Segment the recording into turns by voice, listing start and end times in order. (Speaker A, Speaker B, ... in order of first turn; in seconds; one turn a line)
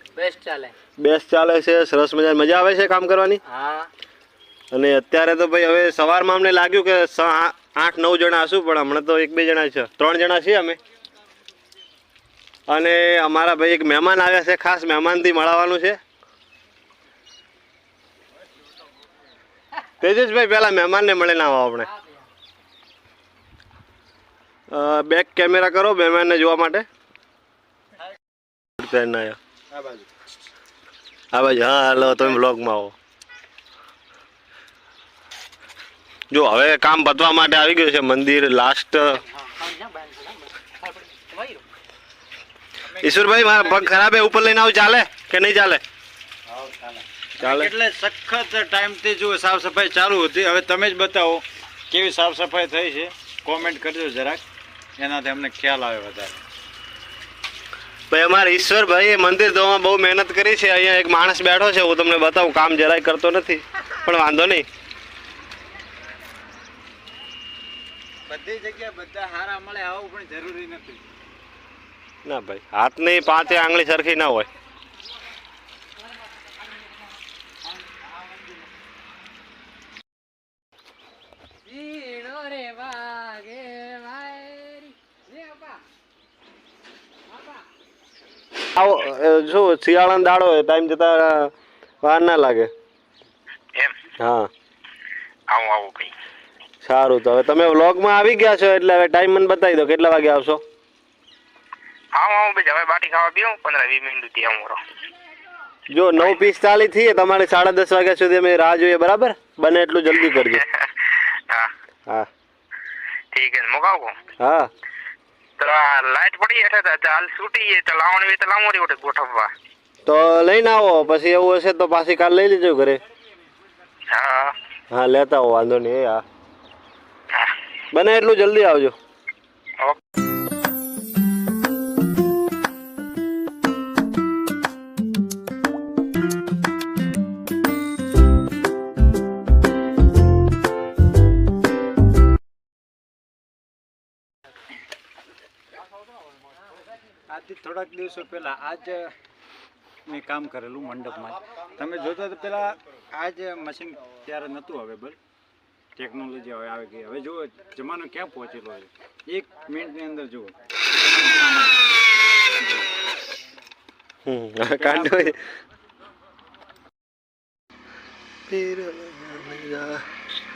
Speaker A: 0.2-0.7
Speaker B: 1.0-3.4
Speaker A: 3.5-3.9
Speaker B: 4.7-10.8
Speaker B: 12.7-16.0
Speaker B: 20.0-21.9
Speaker B: 24.7-26.9
Speaker B: 28.8-29.4
Speaker C: 29.7-30.1
Speaker B: 31.3-33.0
Speaker B: 36.3-39.2
Speaker A: 39.6-41.6
Speaker B: 43.0-45.8
Speaker C: 43.0-43.9
Speaker C: 46.5-54.4
Speaker B: 47.4-47.7
Speaker C: 55.0-56.4
Speaker B: 58.1-64.7
Speaker C: 68.3-71.0
Speaker B: 72.2-74.5
Speaker A: 81.7-85.6
Speaker B: 88.7-91.5
Speaker B: 92.0-92.7
Speaker B: 94.2-94.5
Speaker D: 95.5-96.1
Speaker B: 96.8-100.6
Speaker D: 102.2-104.8
Speaker B: 105.9-110.7
Speaker D: 106.2-106.4
Speaker D: 110.2-111.7
Speaker D: 113.3-114.2
Speaker B: 114.4-114.7
Speaker D: 115.6-119.5
Speaker B: 120.1-123.0
Speaker D: 124.1-124.5
Speaker B: 124.9-126.2
Speaker B: 127.9-128.9
Speaker C: 147.3-149.2
Speaker C: 150.1-155.2
Speaker C: 156.0-161.8
Speaker B: 164.2-165.4
Speaker B: 168.5-170.0